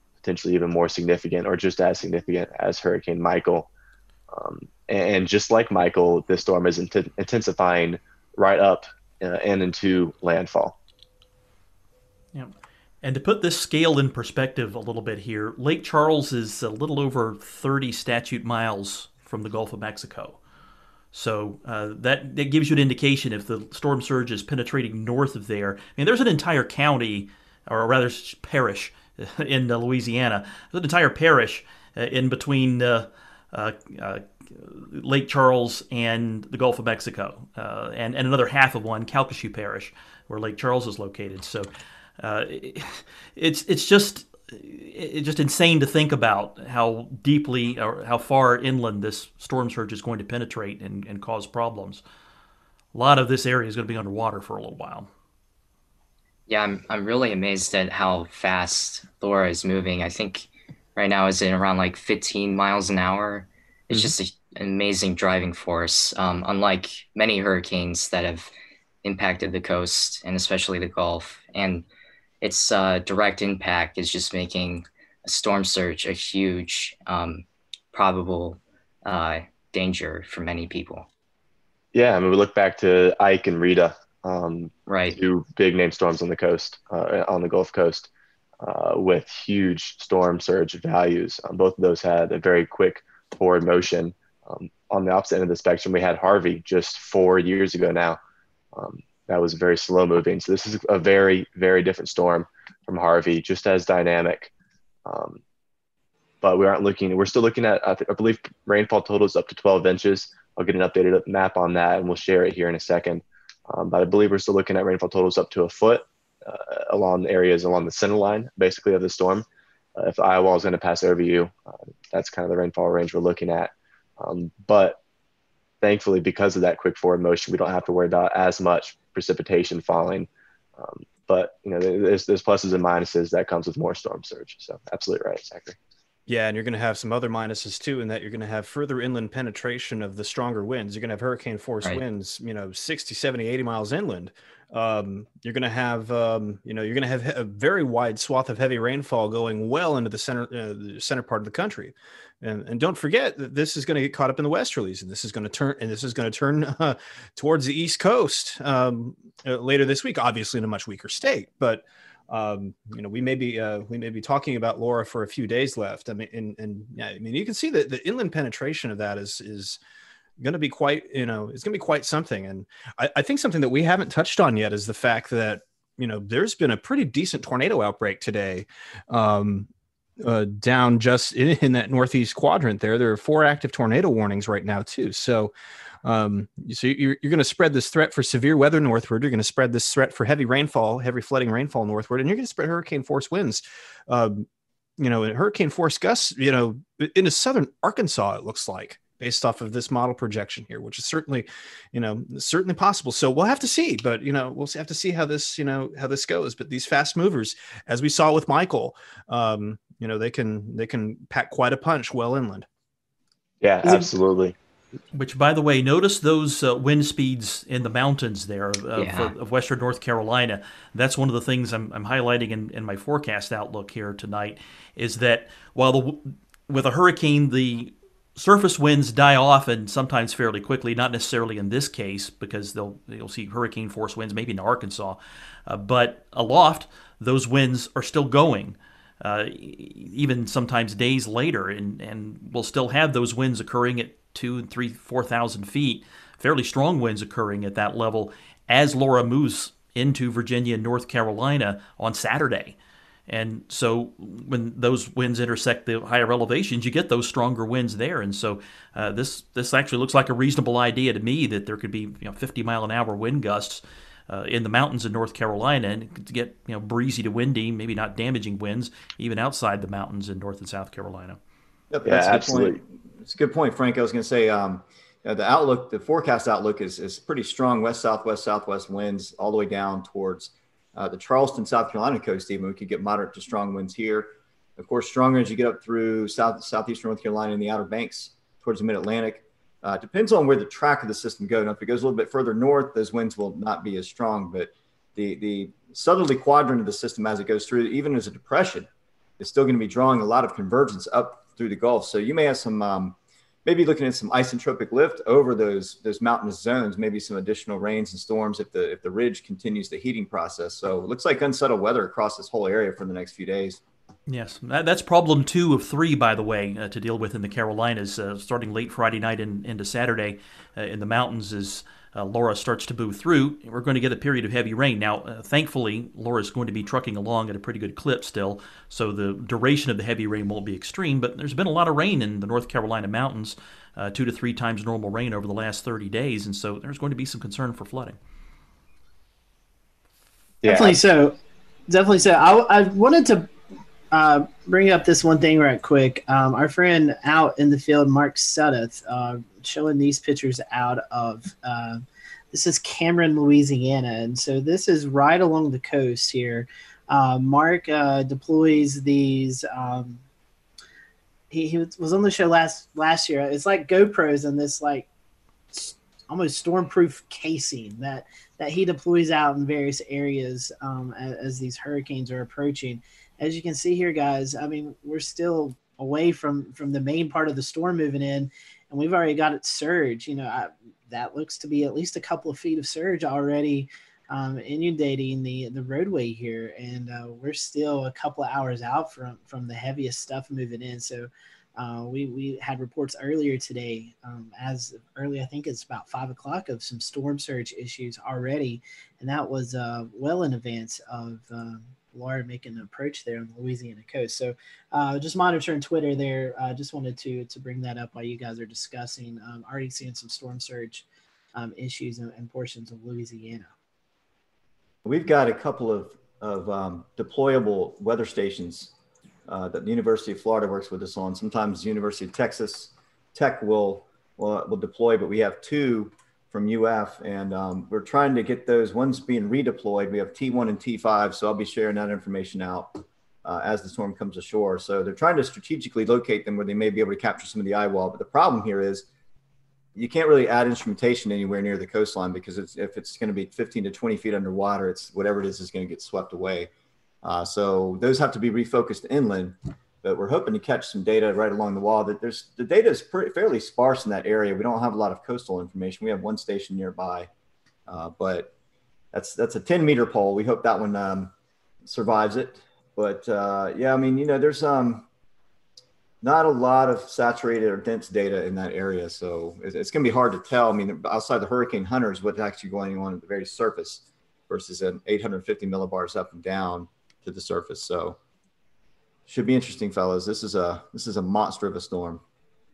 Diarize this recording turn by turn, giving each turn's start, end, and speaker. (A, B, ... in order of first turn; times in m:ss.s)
0:00.2-0:03.7 A
0:04.3-0:10.8 A
0:12.3-0:20.4 B
0:21.1-0:52.0 B
0:52.9-0:55.1 B
0:56.5-1:08.5 C
1:09.0-1:11.8 C
1:12.4-1:21.1 C
1:21.9-1:28.1 A
1:24.9-1:25.2 C
1:28.6-1:38.2 A
1:38.7-1:44.5 A
1:45.0-1:45.4 A
1:46.4-1:59.4 A
2:00.0-2:05.0 A
2:05.8-2:15.8 A
2:16.3-2:49.8 D
2:50.4-2:59.7 D
3:00.2-3:05.5 D
3:06.0-3:14.4 D
3:15.0-3:32.7 D
3:33.6-3:34.5 A
3:35.1-4:12.8 B
3:38.9-3:39.3 C
4:13.3-4:31.4 B
4:31.9-4:58.9 E
4:32.0-4:32.8 A
4:59.4-5:13.8 E
5:14.3-5:38.2 B
5:40.6-5:41.0 A
5:40.6-5:41.4 F
5:41.9-5:43.5 F
5:44.1-6:00.2 F
6:01.5-6:05.1 F
6:05.7-6:53.7 F
6:55.0-6:58.9 E
6:59.5-7:19.1 E
7:19.9-7:26.7 E
7:27.2-7:37.3 E
7:37.9-7:38.5 E
7:39.1-7:41.3 E
7:41.8-7:45.0 E
7:46.2-7:58.2 E
7:59.3-8:02.2 E